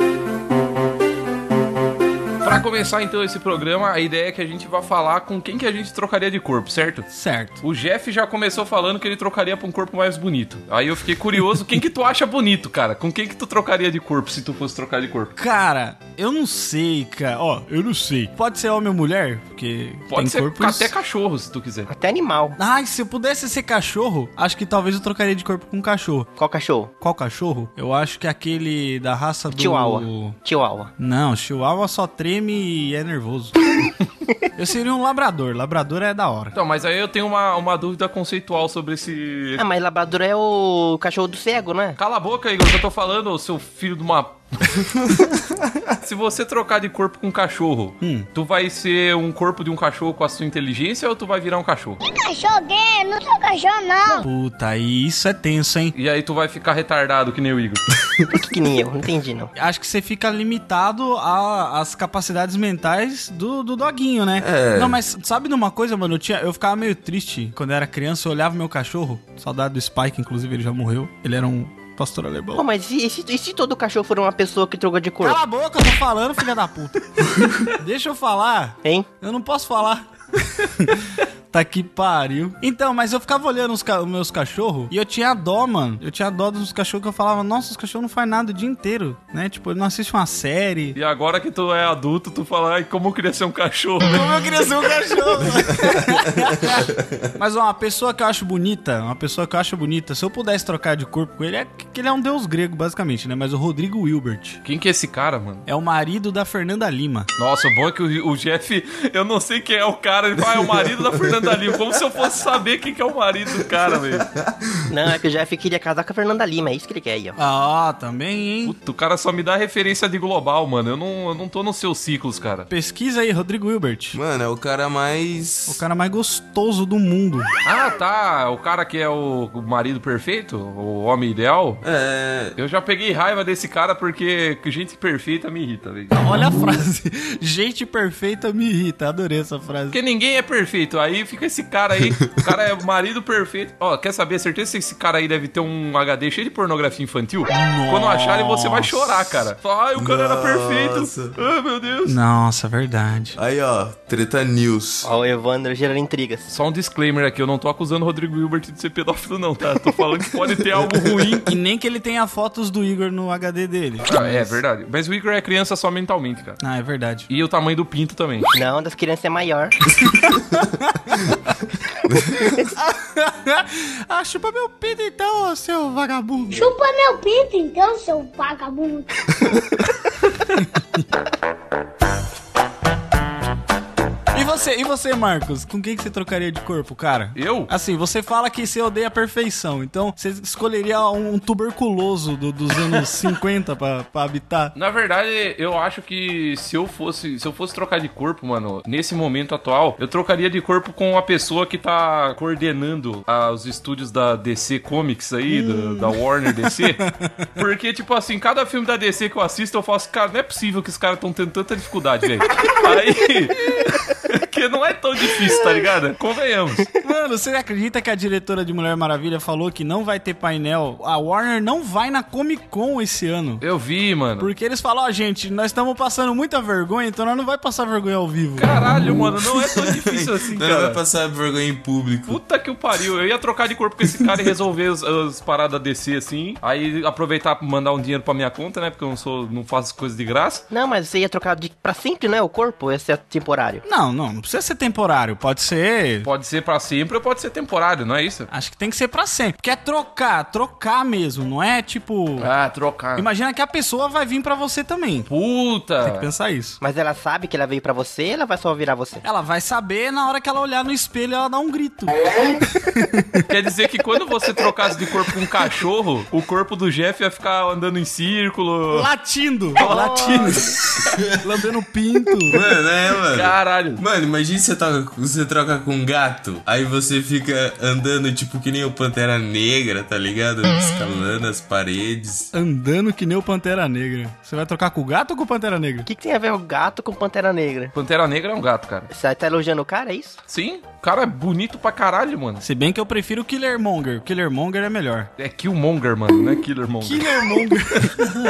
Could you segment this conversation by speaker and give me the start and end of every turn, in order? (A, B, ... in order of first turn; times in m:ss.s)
0:02.4-0:07.1 A
0:07.1-0:07.6 B
0:07.6-0:15.3 A
0:15.4-0:20.9 B
0:20.1-0:21.9 A
0:21.9-0:22.6 C
0:22.6-0:26.3 B
0:26.4-0:26.9 C
0:27.0-0:30.4 B
0:29.5-0:30.9 C
0:31.0-0:33.6 B
0:34.6-0:36.6 B
0:36.5-0:39.6 A
0:39.6-0:42.0 C
0:42.0-0:44.8 A
0:46.0-0:52.0 A
0:48.0-0:48.3 B
0:52.0-0:54.2 D
0:54.2-0:55.9 B
0:56.0-0:57.9 A
0:58.3-0:59.5 C
0:59.6-1:12.6 B
1:04.4-1:05.0 E
1:12.6-1:15.4 C
1:15.2-1:31.0 B
1:30.9-1:34.4 A
1:34.0-1:44.6 B
1:35.7-1:36.9 E
1:44.6-1:45.6 A
1:45.7-1:47.3 B
1:47.4-1:54.2 A
1:54.2-1:54.7 E
1:54.9-1:57.4 C
1:57.4-1:58.8 B
1:58.6-2:02.7 A
2:02.7-2:04.2 B
2:04.1-2:05.8 E
2:05.7-2:07.5 B
2:07.6-2:11.8 A
2:11.8-2:12.6 E
2:12.6-2:16.1 A
2:16.1-2:20.0 B
2:19.9-2:32.2 A
2:27.5-2:29.3 B
2:30.0-2:31.4 E
2:32.1-2:33.4 B
2:33.4-2:35.1 E
2:35.0-2:36.5 C
2:36.5-2:41.6 A
2:41.4-2:44.6 B
2:44.1-2:46.6 A
2:46.6-2:47.3 B
2:47.3-2:48.5 A
2:48.5-2:49.8 C
2:50.8-2:51.3 B
2:52.1-2:52.6 E
2:52.8-2:56.7 B
2:56.5-2:59.1 D
3:04.3-3:14.8 B
3:07.4-3:07.7 A
3:14.8-3:36.9 A
3:25.5-3:27.5 B
3:37.0-3:43.6 B
3:43.6-3:44.5 A
3:44.4-3:48.7 B
3:48.6-3:51.0 A
3:49.4-3:52.4 E
3:52.3-4:00.6 A
4:00.7-4:03.8 C
4:03.8-4:06.3 B
4:06.2-4:08.5 A
4:08.5-4:12.5 B
4:12.4-4:13.3 A
4:13.2-4:15.3 B
4:15.3-4:16.3 A
4:16.0-4:16.8 B
4:16.8-4:19.2 C
4:19.2-4:23.5 B
4:23.5-4:29.1 A
4:28.9-4:30.7 B
4:29.8-4:30.7 A
4:29.9-4:30.4 C
4:31.4-4:32.6 B
4:32.5-4:42.5 E
4:33.2-4:34.0 A
4:42.5-4:46.1 B
4:46.0-4:47.9 C
4:48.0-4:49.1 A
4:49.1-4:50.4 C
4:50.5-4:52.6 A
4:52.6-4:55.3 B
4:55.4-4:58.0 A
4:57.0-4:58.4 B